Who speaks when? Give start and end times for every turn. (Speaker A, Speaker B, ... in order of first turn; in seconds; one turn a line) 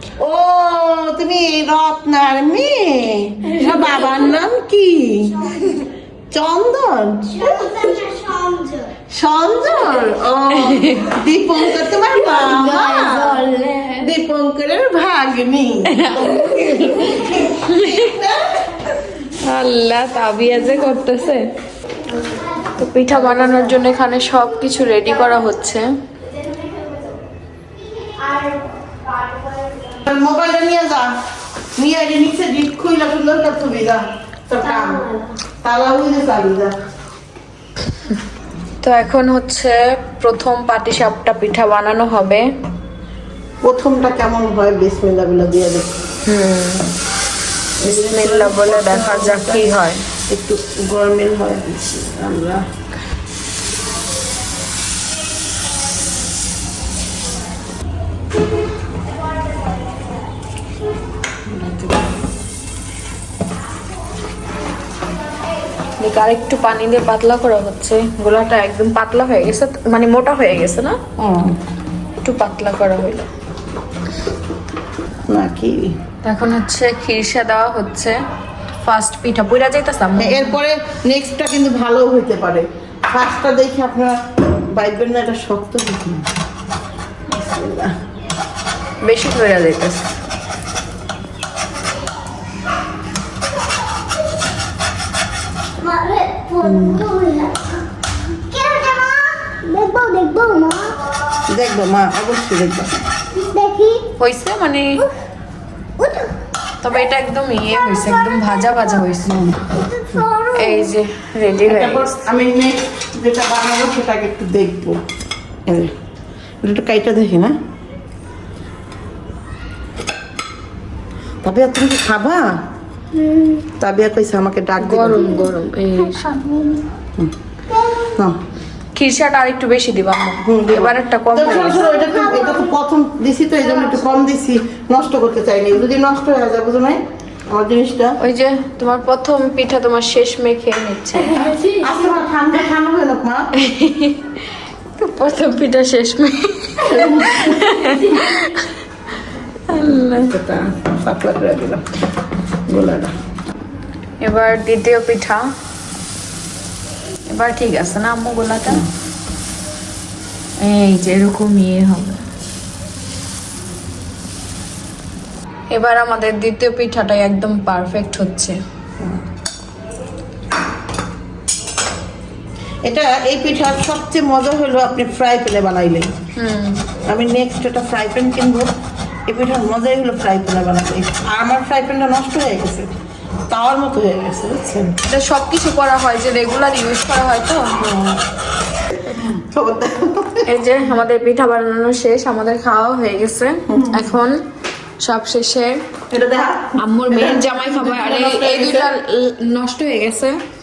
Speaker A: 0.2-5.8
Speaker A: 6.3-7.7
Speaker B: 7.4-8.9
Speaker A: 9.1-18.6
Speaker C: 10.6-11.2
Speaker C: 12.2-14.1
Speaker C: 15.9-18.1
Speaker C: 19.3-21.5
Speaker C: 22.7-25.9
Speaker A: 23.1-23.7
Speaker B: 26.4-27.2
Speaker B: 28.0-29.9
Speaker A: 30.0-31.1
Speaker A: 31.8-36.8
Speaker C: 38.8-42.5
Speaker A: 43.6-45.9
Speaker C: 46.3-46.9
Speaker A: 47.8-49.7
Speaker C: 47.8-50.0
Speaker A: 50.3-52.6
Speaker A: 61.5-62.0
Speaker C: 66.0-71.0
Speaker A: 71.2-71.5
Speaker C: 72.2-73.3
Speaker A: 75.3-76.0
Speaker C: 76.2-78.2
Speaker C: 78.8-80.5
Speaker A: 80.2-84.2
Speaker A: 84.7-86.2
Speaker A: 87.3-87.9
Speaker C: 89.0-90.1
Speaker B: 95.8-101.0
Speaker A: 96.6-97.1
Speaker A: 101.5-103.0
Speaker B: 103.3-104.1
Speaker C: 104.2-105.1
Speaker B: 106.0-106.3
Speaker C: 106.8-109.5
Speaker A: 109.3-109.6
Speaker B: 109.8-110.6
Speaker C: 110.5-112.2
Speaker A: 111.7-115.0
Speaker A: 115.7-115.9
Speaker A: 116.6-117.5
Speaker A: 121.4-122.5
Speaker B: 123.2-123.6
Speaker A: 123.7-125.4
Speaker C: 124.8-126.8
Speaker B: 127.7-128.0
Speaker C: 128.9-131.9
Speaker A: 130.4-138.2
Speaker B: 131.8-132.6
Speaker C: 138.2-141.8
Speaker A: 141.8-143.5
Speaker C: 143.6-144.4
Speaker C: 145.0-148.8
Speaker A: 146.8-148.0
Speaker C: 149.7-150.3
Speaker A: 150.1-151.8
Speaker A: 152.7-153.1
Speaker C: 154.2-155.4
Speaker C: 157.3-158.8
Speaker C: 160.6-162.2
Speaker C: 165.7-168.6
Speaker A: 172.8-176.1
Speaker C: 176.4-176.8
Speaker A: 177.1-178.7
Speaker A: 179.3-182.9
Speaker A: 183.5-185.0
Speaker C: 185.1-187.7
Speaker A: 187.8-188.2
Speaker A: 189.1-190.4
Speaker C: 190.5-194.4
Speaker C: 195.0-195.8
Speaker A: 196.1-198.9
Speaker C: 196.8-200.4